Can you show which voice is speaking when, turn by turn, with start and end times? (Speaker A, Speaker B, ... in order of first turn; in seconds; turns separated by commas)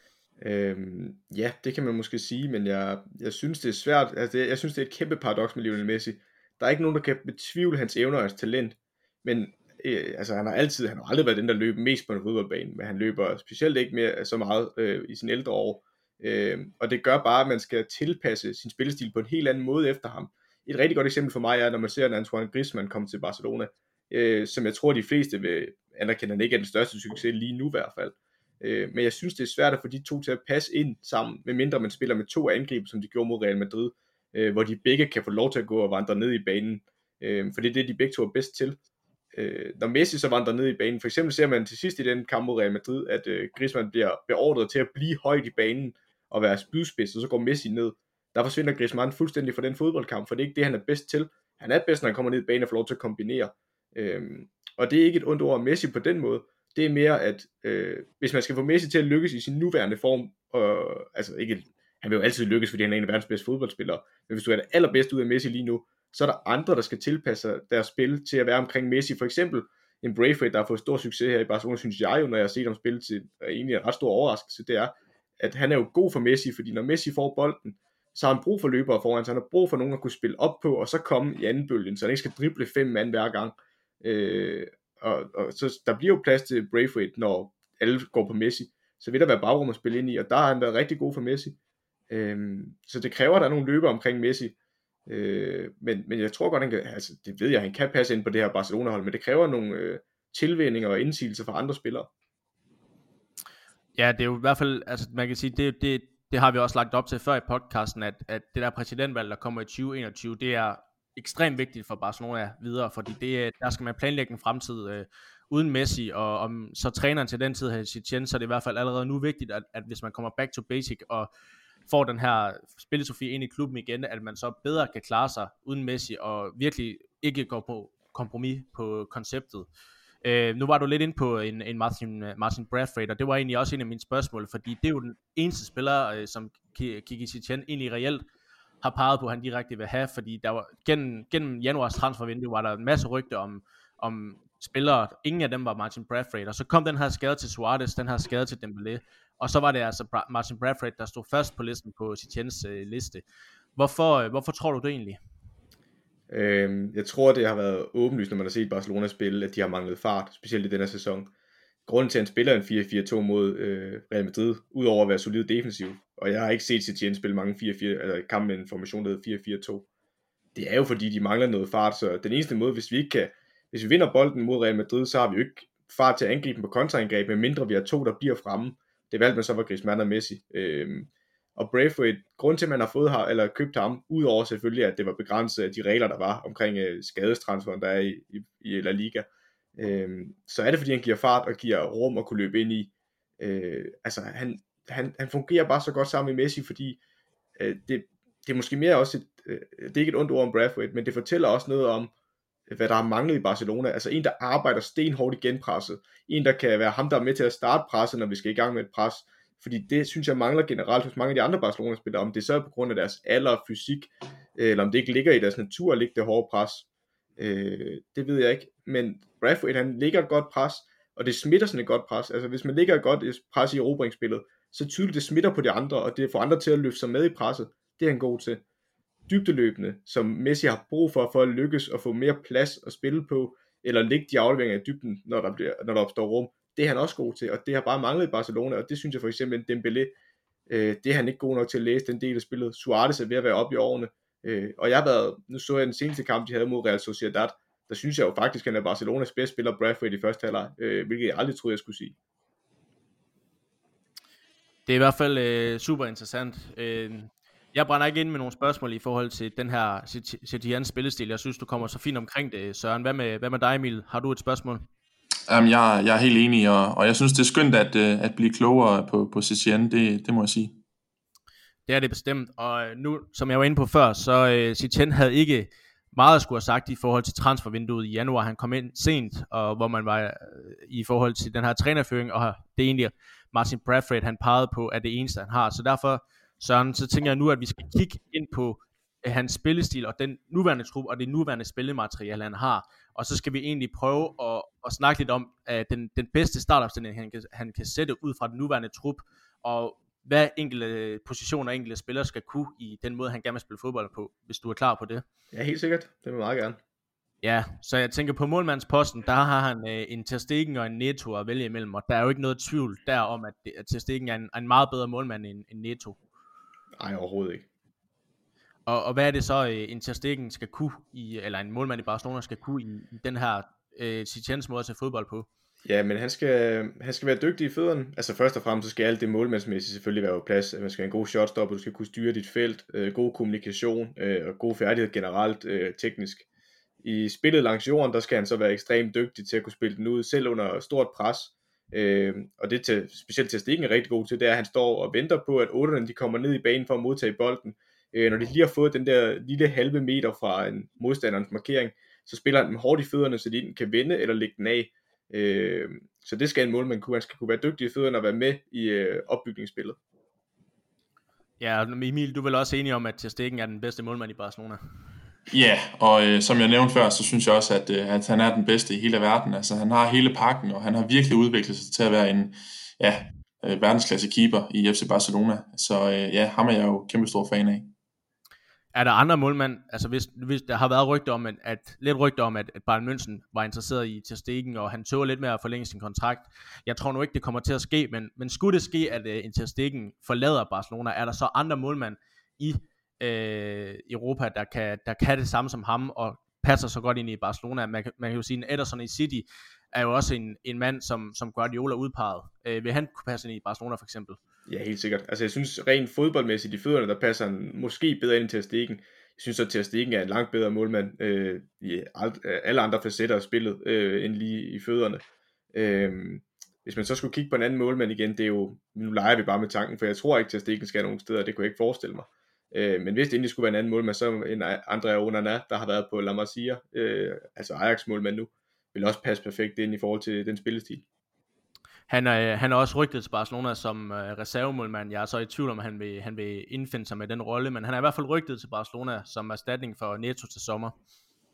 Speaker A: 0.4-38.8, Speaker A: 39.3-91.5, Speaker A: 92.1-94.5, Speaker A: 95.1-102.1, Speaker B: 104.0-121.3, Speaker B: 121.9-129.7, Speaker B: 130.2-138.2, Speaker B: 138.8-153.2, Speaker B: 153.8-155.2, Speaker A: 156.3-161.3, Speaker A: 161.8-169.8, Speaker A: 170.5-197.0, Speaker A: 197.6-202.1, Speaker A: 202.7-216.9, Speaker A: 217.4-228.6, Speaker A: 229.3-240.1, Speaker A: 240.7-252.1, Speaker B: 254.9-264.9, Speaker C: 265.5-270.8, Speaker B: 271.9-305.2, Speaker A: 305.5-306.8, Speaker B: 307.4-316.2, Speaker A: 317.0-317.6, Speaker B: 318.9-325.5, Speaker A: 325.8-336.4, Speaker A: 337.0-360.0, Speaker B: 361.6-364.8, Speaker C: 365.5-377.9, Speaker B: 378.9-404.4, Speaker A: 404.7-415.2, Speaker A: 415.7-431.0, Speaker B: 432.1-440.9